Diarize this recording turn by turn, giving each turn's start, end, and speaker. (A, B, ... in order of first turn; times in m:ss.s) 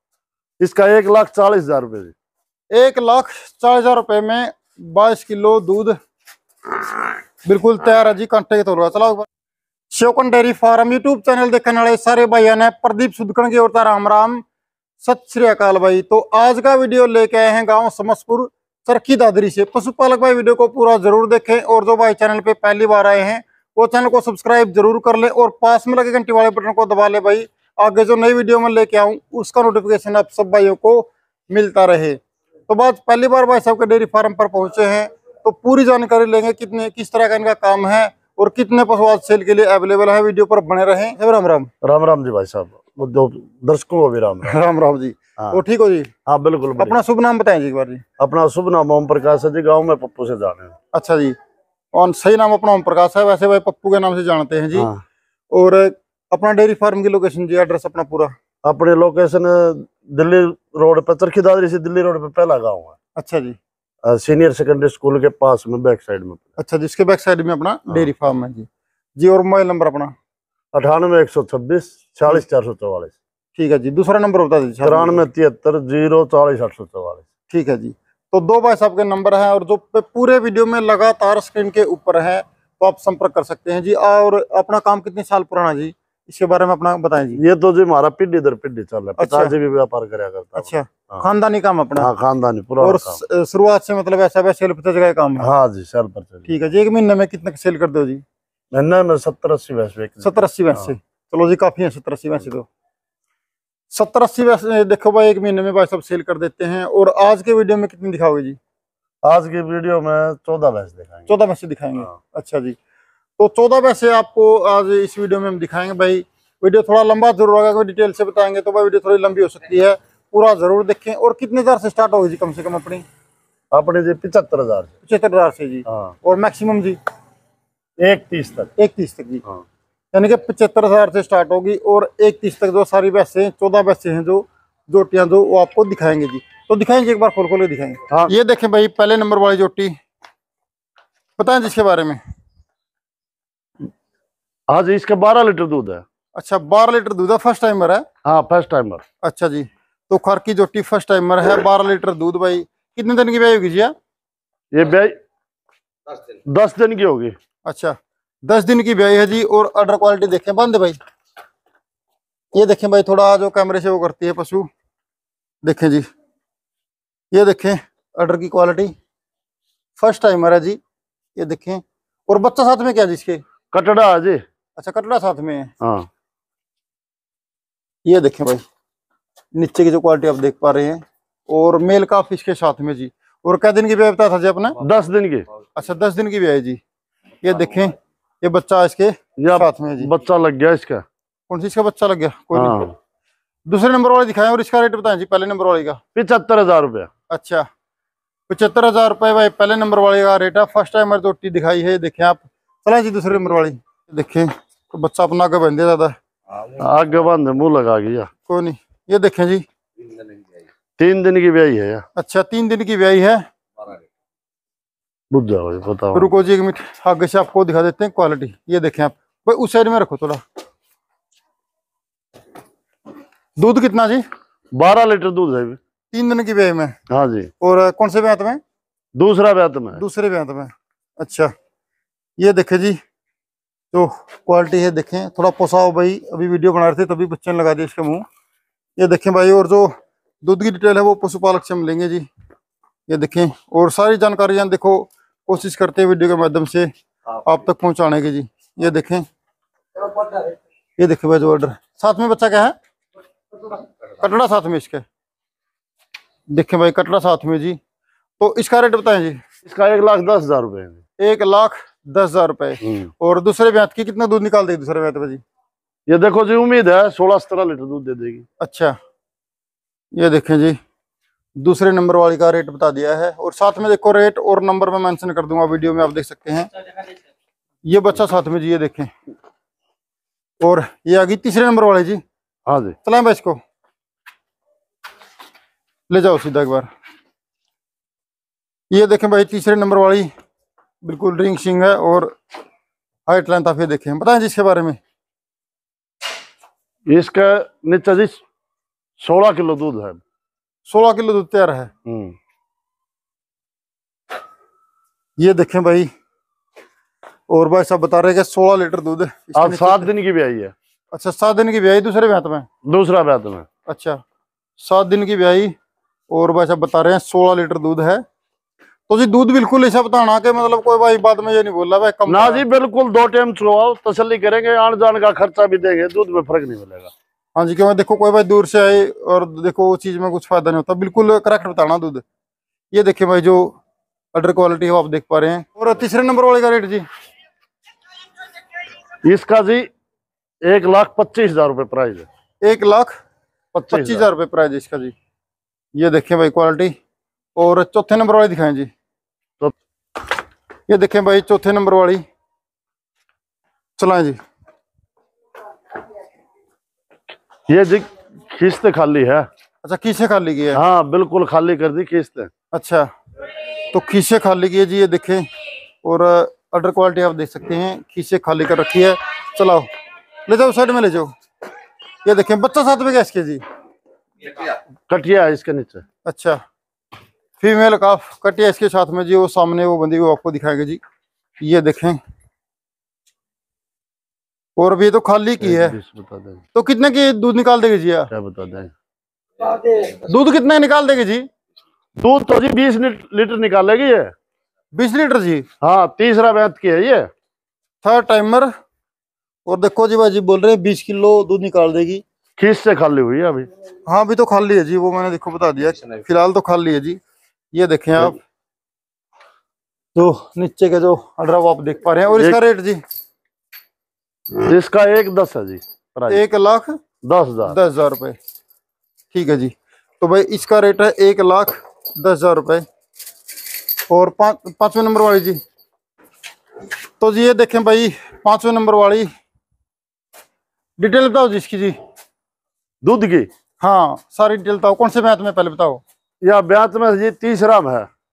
0:00.6-0:02.1 A
0:02.7-0:06.0 B
0:07.4-0:09.3 B
0:09.9-0:14.4 B
0:15.0-0:41.7 B
0:41.8-0:44.6 A
0:44.4-0:46.1 B
0:46.3-0:47.0 A
0:46.8-0:48.0 B
0:48.2-0:50.8 A
0:50.9-0:51.4 B
0:51.9-0:54.9 B
0:54.7-0:55.0 A
0:55.5-0:58.3 B
0:58.6-1:02.9 A
1:03.2-1:03.6 B
1:04.0-1:06.4 A
1:06.6-1:10.1 B
1:10.7-1:13.1 A
1:13.6-1:15.2 B
1:14.8-1:17.2 A
1:17.5-1:27.4 B
1:27.4-1:31.2 A
1:29.2-1:29.5 B
1:30.6-1:32.1 B
1:32.0-1:33.2 A
1:32.8-1:35.5 B
1:35.4-1:36.5 A
1:36.5-1:38.2 B
1:38.7-1:40.9 A
1:40.2-1:42.7 B
1:43.9-1:48.6 B
1:49.2-1:51.3 A
1:51.3-1:52.8 B
1:53.4-2:03.0 B
2:03.7-2:04.9 A
2:05.0-2:07.0 B
2:05.9-2:06.2 A
2:08.0-2:08.7 A
2:08.8-2:09.4 B
2:10.1-2:20.0 B
2:21.4-2:22.2 B
2:24.7-2:26.0 A
2:26.4-2:28.1 B
2:28.2-2:29.0 A
2:29.2-2:33.9 B
2:34.7-2:35.2 A
2:36.3-2:37.4 A
2:37.7-2:41.0 B
2:42.5-2:44.7 B
2:45.6-2:46.1 B
2:47.3-2:48.9 B
2:50.0-2:50.8 B
2:51.4-2:53.4 B
2:53.7-2:54.4 A
2:54.8-2:55.7 B
2:55.8-2:56.1 A
2:58.0-2:58.6 B
2:59.6-3:04.8 B
3:04.8-3:05.5 A
3:05.8-3:06.8 B
3:07.4-3:10.1 B
3:09.4-3:11.0 A
3:11.5-3:12.8 B
3:12.5-3:13.0 A
3:13.7-3:16.0 B
3:16.2-3:17.1 A
3:17.3-3:17.7 B
3:18.5-3:26.2 B
3:26.6-3:28.3 A
3:28.5-3:29.6 B
3:31.0-3:32.1 A
3:32.2-3:33.4 B
3:35.3-3:36.3 A
3:36.1-3:40.4 B
3:43.6-3:44.2 B
3:44.8-3:45.8 A
3:46.1-3:47.0 B
3:47.1-3:47.5 A
3:47.6-3:48.6 B
3:49.2-3:50.0 A
3:50.0-3:51.5 B
3:52.4-3:53.0 B
3:53.9-3:58.2 B
3:59.0-4:02.3 B
4:03.1-4:06.9 B
4:07.4-4:09.2 B
4:11.0-4:12.8 B
4:14.2-4:15.0 B
4:16.5-4:17.8 B
4:18.4-4:19.4 B
4:19.6-4:21.0 A
4:21.2-4:25.4 B
4:22.8-4:23.1 A
4:26.1-4:28.5 A
4:28.6-4:29.0 B
4:30.2-4:30.8 B
4:31.6-4:36.7 B
4:37.9-4:39.1 B
4:40.6-4:42.2 B
4:42.7-4:43.0 A
4:43.0-4:43.6 B
4:46.1-4:46.9 B
4:48.9-4:50.3 B
4:51.0-4:52.3 B
4:53.3-4:55.0 B
4:57.1-4:58.4 A
4:59.2-5:00.2 A
5:00.9-5:01.9 B
5:02.1-5:02.4 A
5:05.4-5:06.1 B
5:07.5-5:10.1 B
5:09.6-5:10.7 A
5:11.1-5:12.7 B
5:12.8-5:13.7 A
5:13.9-5:14.2 B
5:14.8-5:15.7 B
5:16.3-5:18.2 B
5:19.1-5:22.6 B
5:22.3-5:27.1 A
5:27.6-5:32.2 B
5:32.9-5:33.8 B
5:34.4-5:37.1 B
5:39.2-5:39.9 A
5:40.6-5:42.3 A
5:42.6-5:43.1 B
5:43.7-5:44.3 A
5:43.9-5:45.2 B
5:46.0-5:47.0 B
5:47.6-5:48.9 B
5:50.9-5:52.2 B
5:54.0-5:54.4 B
5:57.7-5:59.5 A
5:59.8-6:00.8 B
6:00.7-6:02.5 A
6:02.7-6:03.1 B
6:03.9-6:05.4 B
6:06.0-6:09.9 B
6:10.5-6:11.3 B
6:12.2-6:13.6 B
6:15.1-6:16.0 A
6:16.2-6:16.6 B
6:17.6-6:21.0 B
6:21.6-6:22.2 B
6:24.8-6:26.0 B
6:25.6-6:26.6 A
6:26.7-6:28.3 B
6:28.3-6:28.9 A
6:29.7-6:31.5 B
6:32.2-6:34.3 A
6:34.9-6:35.7 B
6:35.8-6:37.3 A
6:38.0-6:38.7 B
6:39.7-6:42.2 B
6:42.6-6:43.7 A
6:44.1-6:47.2 B
6:47.7-6:48.4 B
6:50.2-6:53.0 B
6:52.3-6:52.6 A
6:54.6-6:56.4 A
6:56.3-6:57.0 B
6:57.2-6:57.8 A
6:57.6-6:58.4 B
6:59.3-7:02.8 B
7:04.1-7:05.6 B
7:07.2-7:09.3 B
7:11.0-7:12.0 B
7:13.0-7:13.5 A
7:13.8-7:16.0 B
7:16.4-7:18.1 A